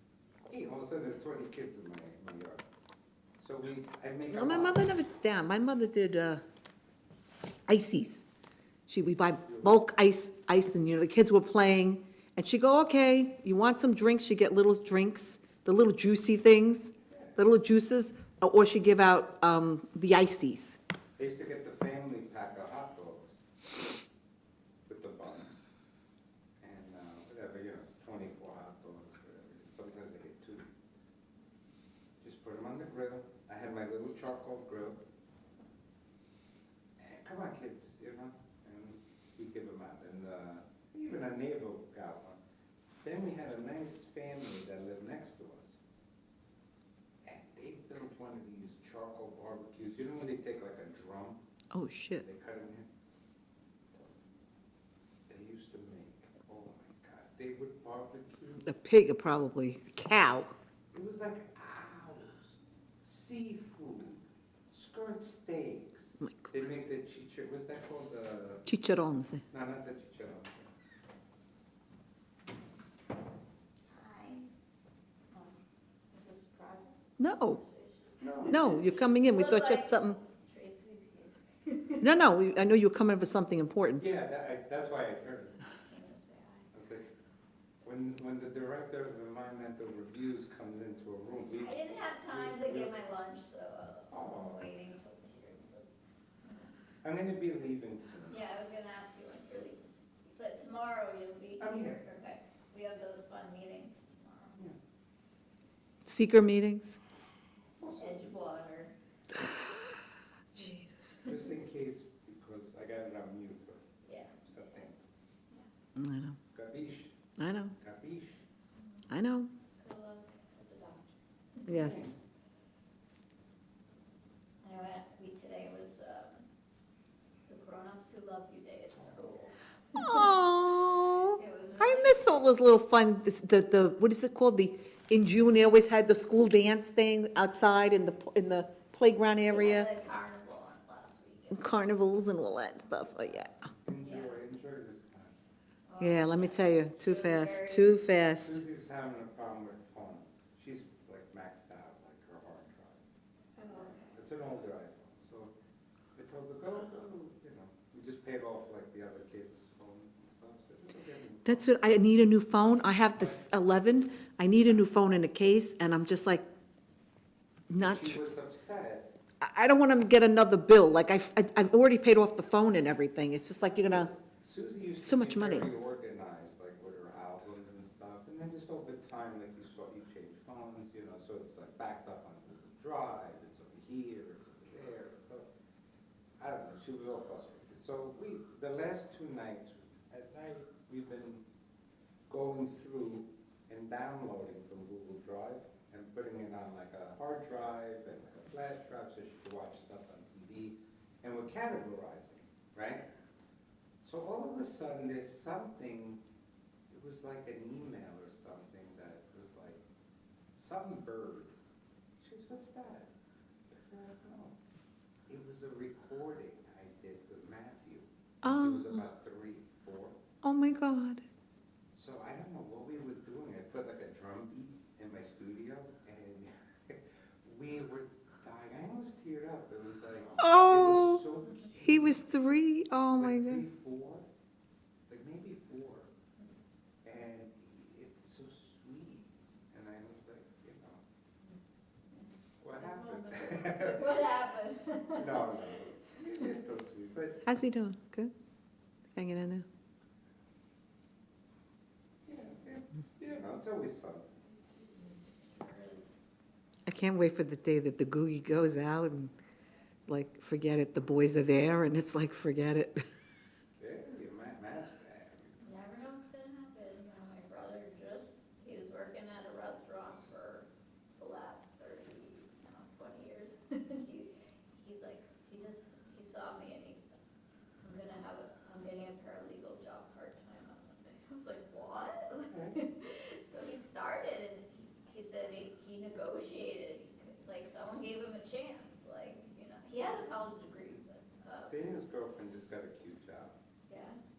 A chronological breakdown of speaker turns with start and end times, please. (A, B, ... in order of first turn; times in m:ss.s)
0:00.5-0:02.6 A
0:03.4-0:05.0 A
0:04.3-0:06.4 B
0:07.7-0:08.2 B
0:08.9-0:20.8 B
0:09.4-0:09.8 A
0:17.1-0:17.4 A
0:21.2-0:23.4 A
0:24.9-0:25.6 A
0:26.6-0:30.7 A
0:32.2-0:35.0 A
0:37.0-0:42.4 A
0:43.0-0:45.8 A
0:47.2-0:51.4 A
0:51.7-0:52.2 B
0:52.2-0:52.9 A
0:55.3-0:58.8 A
0:58.6-1:00.5 B
1:00.9-1:08.7 A
1:06.2-1:06.7 B
1:08.7-1:09.4 B
1:09.5-1:10.7 A
1:13.9-1:14.5 C
1:15.3-1:15.6 C
1:16.1-1:18.2 C
1:17.2-1:17.6 B
1:18.2-1:18.9 A
1:18.4-1:20.2 B
1:19.2-1:22.1 C
1:22.0-1:24.0 B
1:24.0-1:25.6 A
1:25.7-1:26.7 C
1:26.7-1:27.1 A
1:27.8-1:33.1 A
1:31.6-1:35.9 C
1:34.1-1:34.7 A
1:37.0-1:38.4 A
1:38.3-1:44.6 C
1:41.6-1:42.0 A
1:46.1-1:47.0 B
1:47.8-1:48.4 A
1:47.8-1:48.9 C
1:50.5-1:51.2 B
1:51.2-1:55.0 A
1:54.1-1:54.4 C
1:56.0-1:56.4 B
1:56.5-1:57.2 A
1:57.4-1:57.8 B
1:57.8-1:58.4 A
1:59.1-1:59.5 B
1:59.8-2:01.7 C
2:01.7-2:02.2 B
2:01.7-2:02.2 A
2:04.6-2:06.5 C
2:07.5-2:10.4 C
2:08.9-2:09.4 A
2:10.0-2:19.9 B
2:11.2-2:12.5 C
2:19.5-2:22.2 C
2:21.5-2:23.6 B
2:23.8-2:25.4 A
2:24.0-2:24.4 C
2:25.9-2:28.2 C
2:26.0-2:28.6 B
2:28.3-2:33.0 A
2:33.6-2:34.2 C
2:33.8-2:35.5 A
2:36.2-2:41.7 A
2:41.4-2:46.5 B
2:43.2-2:43.5 A
2:47.7-2:48.2 B
2:47.8-2:49.1 A
2:49.4-2:54.1 B
2:53.9-3:05.5 A
2:55.0-2:55.7 B
3:06.4-3:11.4 A
3:12.3-3:23.0 A
3:24.0-3:26.2 A
3:26.9-3:29.8 A
3:30.5-3:31.6 A
3:32.2-3:33.1 A
3:33.7-3:34.6 A
3:35.3-3:40.2 A
3:38.4-3:39.0 B
3:40.4-3:41.2 B
3:41.9-3:52.3 A
3:50.4-3:51.2 B
3:51.8-3:53.6 B
3:53.2-3:54.3 A
3:55.1-3:56.1 A
3:57.0-4:01.0 A
4:02.2-4:06.0 C
4:02.6-4:04.4 A
4:05.1-4:07.4 A
4:07.4-4:08.3 B
4:09.1-4:09.7 B
4:12.3-4:14.3 A
4:14.6-4:16.2 C
4:16.9-4:19.3 B
4:20.1-4:23.0 B
4:23.8-4:25.6 A
4:25.6-4:37.2 C
4:37.8-4:51.7 C
4:42.5-4:42.8 A
4:51.7-4:53.5 A
4:53.9-4:54.2 C